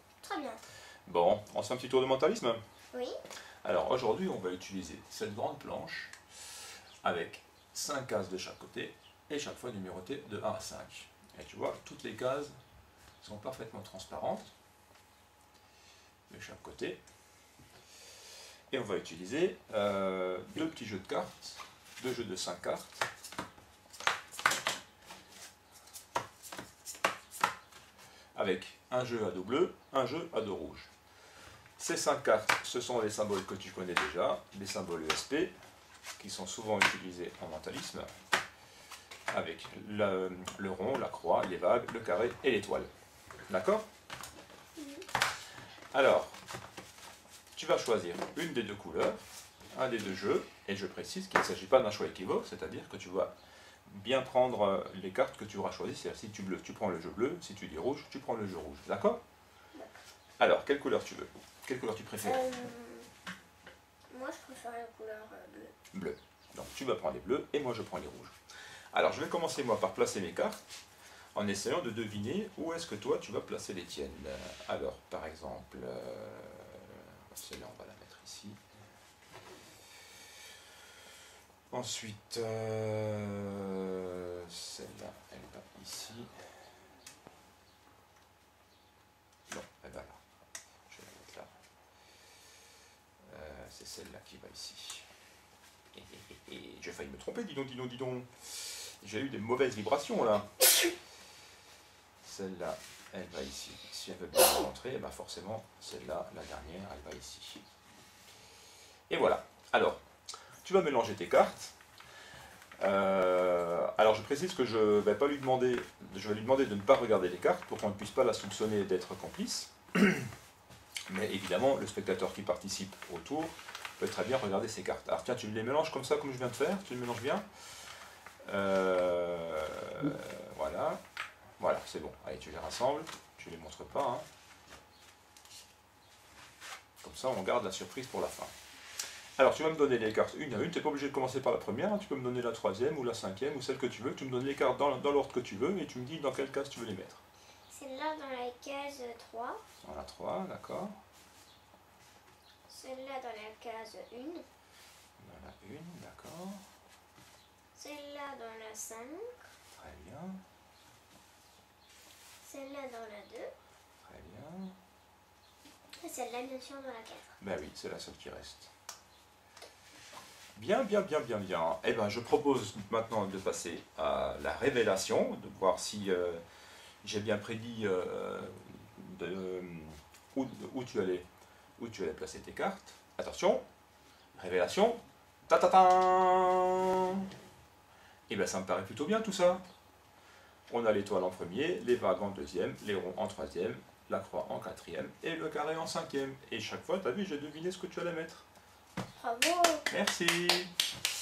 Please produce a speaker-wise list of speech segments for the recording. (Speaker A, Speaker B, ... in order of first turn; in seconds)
Speaker A: 0.2-0.6, 2.9-3.2, 44.8-45.1, 62.2-63.1, 64.1-65.7, 147.7-149.6, 152.7-154.5, 157.8-159.3, 162.4-163.5, 166.0-167.3, 199.2-199.9
Speaker B: 1.1-2.6, 3.6-6.2, 7.0-12.6, 13.2-14.5, 16.3-17.0, 18.7-23.1, 28.4-30.9, 31.8-35.5, 36.2-38.1, 39.3-42.9, 43.5-43.9, 45.9-46.4, 47.5-49.2, 49.7-53.3, 53.9-59.2, 60.4-62.5, 65.9-68.3, 68.9-70.6, 71.3-78.6, 81.7-86.3, 89.5-90.2, 90.9-91.5, 93.3-95.1, 95.9-100.7, 102.2-107.6, 109.1-110.0, 110.6-111.8, 112.8-120.3, 121.1-127.5, 128.4-131.0, 131.6-134.2, 137.0-138.5, 139.4-147.2, 149.8-151.0, 155.2-156.6, 159.7-160.4, 164.0-164.8, 167.4-168.7, 170.6-176.4, 177.0-181.3, 181.8-183.6, 184.3-187.3, 188.3-189.6, 190.7-198.4, 199.9-200.7